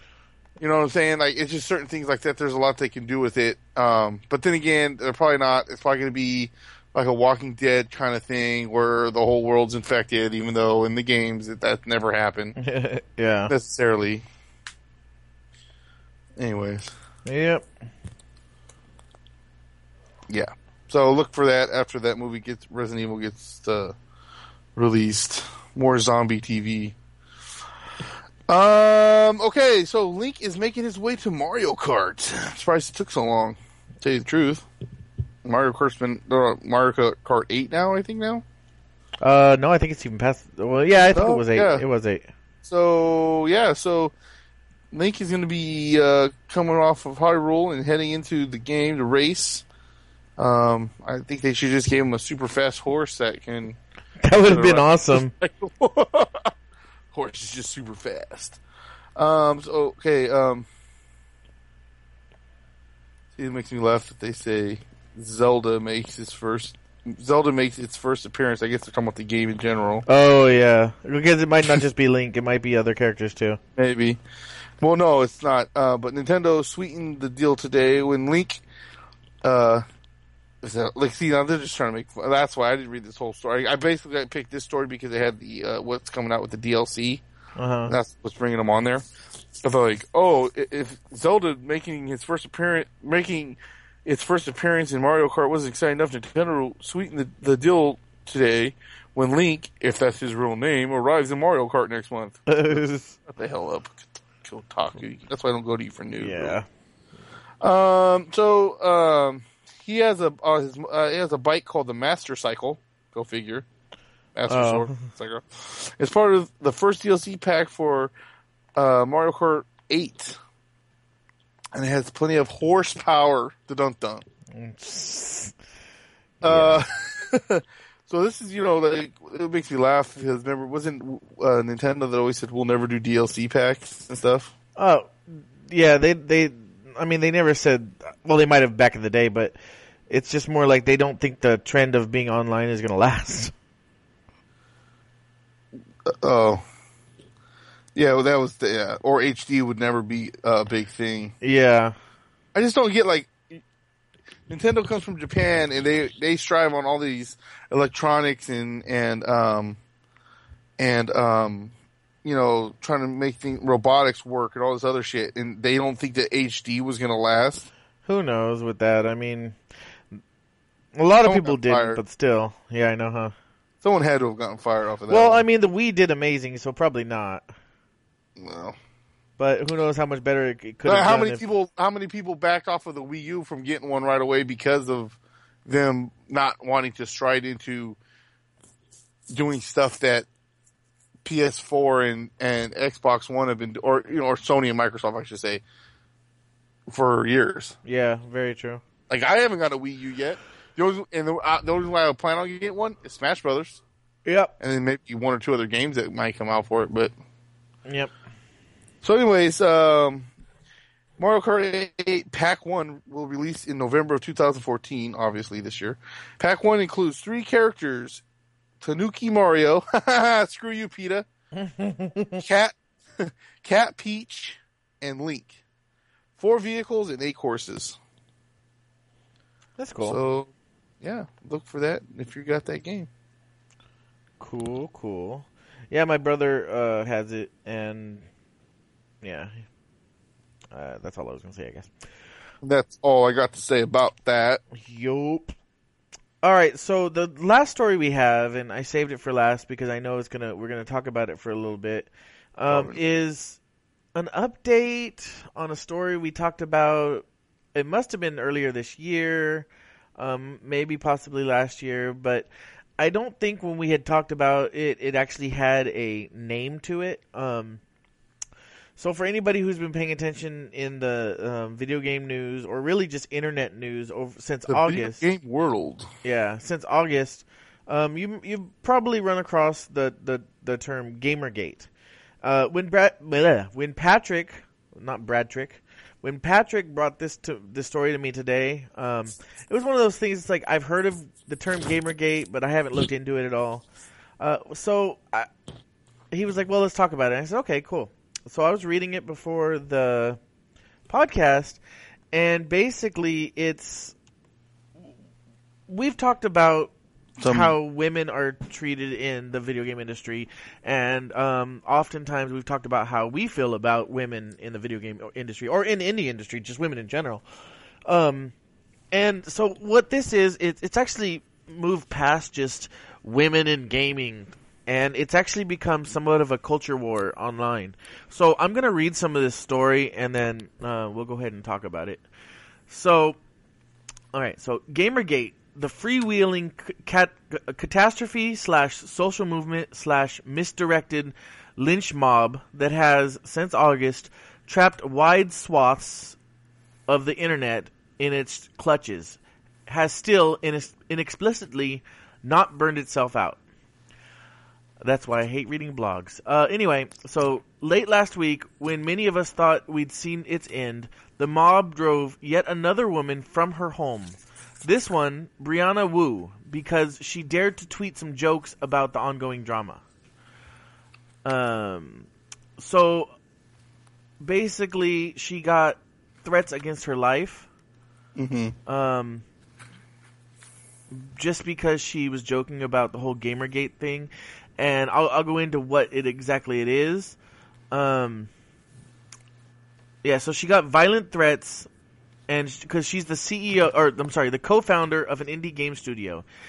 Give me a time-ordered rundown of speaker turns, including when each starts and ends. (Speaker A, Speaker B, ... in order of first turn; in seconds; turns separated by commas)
Speaker A: 0.6-12.6, Speaker B: 12.6-13.5, Speaker A: 13.5-14.2, Speaker A: 16.4-16.9, Speaker B: 17.2-17.6, Speaker A: 20.3-23.9, Speaker A: 24.7-26.9, Speaker A: 28.5-34.6, Speaker A: 35.4-38.4, Speaker B: 39.2-42.3, Speaker A: 41.1-41.8, Speaker A: 42.6-44.1, Speaker A: 44.9-49.6, Speaker A: 50.4-53.8, Speaker B: 54.2-55.3, Speaker A: 54.5-56.5, Speaker A: 57.1-58.6, Speaker A: 59.1-60.7, Speaker A: 63.4-70.0, Speaker B: 70.1-73.6, Speaker A: 73.8-74.2, Speaker A: 74.8-78.6, Speaker A: 79.4-79.8, Speaker A: 80.6-87.2, Speaker B: 87.6-87.9, Speaker A: 87.9-89.0, Speaker A: 89.6-106.5, Speaker B: 102.5-103.2, Speaker B: 106.2-106.7, Speaker A: 107.6-113.7, Speaker A: 114.3-118.1, Speaker B: 114.5-115.0, Speaker A: 118.8-120.4, Speaker A: 121.7-124.2, Speaker B: 124.5-125.5, Speaker A: 126.4-134.5, Speaker B: 126.5-126.8, Speaker B: 134.8-139.6, Speaker B: 140.1-143.5, Speaker A: 146.1-146.6, Speaker A: 147.9-151.3, Speaker B: 151.4-151.9, Speaker A: 152.5-153.6, Speaker A: 154.5-159.8, Speaker A: 160.8-161.7, Speaker A: 162.2-167.7, Speaker B: 168.1-169.6, Speaker B: 170.9-173.3, Speaker A: 171.2-172.0, Speaker A: 173.8-175.4, Speaker B: 175.1-177.4, Speaker A: 178.4-178.8, Speaker B: 179.4-181.4, Speaker A: 180.8-188.0, Speaker A: 189.3-190.3, Speaker A: 191.2-195.6, Speaker A: 196.9-197.7, Speaker B: 197.8-198.8, Speaker A: 199.1-203.8, Speaker B: 204.2-204.5, Speaker A: 204.6-207.1, Speaker B: 207.8-208.1, Speaker A: 209.0-210.3, Speaker A: 211.2-218.2, Speaker A: 218.8-221.2, Speaker B: 221.5-222.4, Speaker A: 222.4-225.6, Speaker A: 226.4-228.0, Speaker B: 229.8-230.2, Speaker A: 230.0-230.5, Speaker A: 231.0-233.1, Speaker B: 234.4-238.3, Speaker B: 239.2-239.6, Speaker B: 240.7-241.9, Speaker A: 242.6-244.6, Speaker B: 244.7-245.5, Speaker B: 246.4-253.6, Speaker A: 252.7-253.0, Speaker B: 254.1-267.8, Speaker B: 269.0-275.2, Speaker A: 274.7-276.1, Speaker B: 276.2-281.9, Speaker B: 282.4-293.8, Speaker B: 294.4-295.5, Speaker B: 296.3-300.4, Speaker B: 301.1-301.8, Speaker B: 302.3-304.1, Speaker B: 305.9-306.9, Speaker A: 307.4-307.7, Speaker B: 307.4-317.4, Speaker B: 318.1-318.5, Speaker B: 319.1-332.2, Speaker B: 332.9-333.4, Speaker B: 334.3-346.4, Speaker B: 347.1-353.6, Speaker B: 355.0-370.0, Speaker B: 371.4-373.3, Speaker B: 374.4-377.7, Speaker A: 378.4-378.7, Speaker B: 378.9-379.4, Speaker B: 381.1-387.4, Speaker B: 387.9-388.5, Speaker B: 390.2-391.9, Speaker B: 392.5-396.4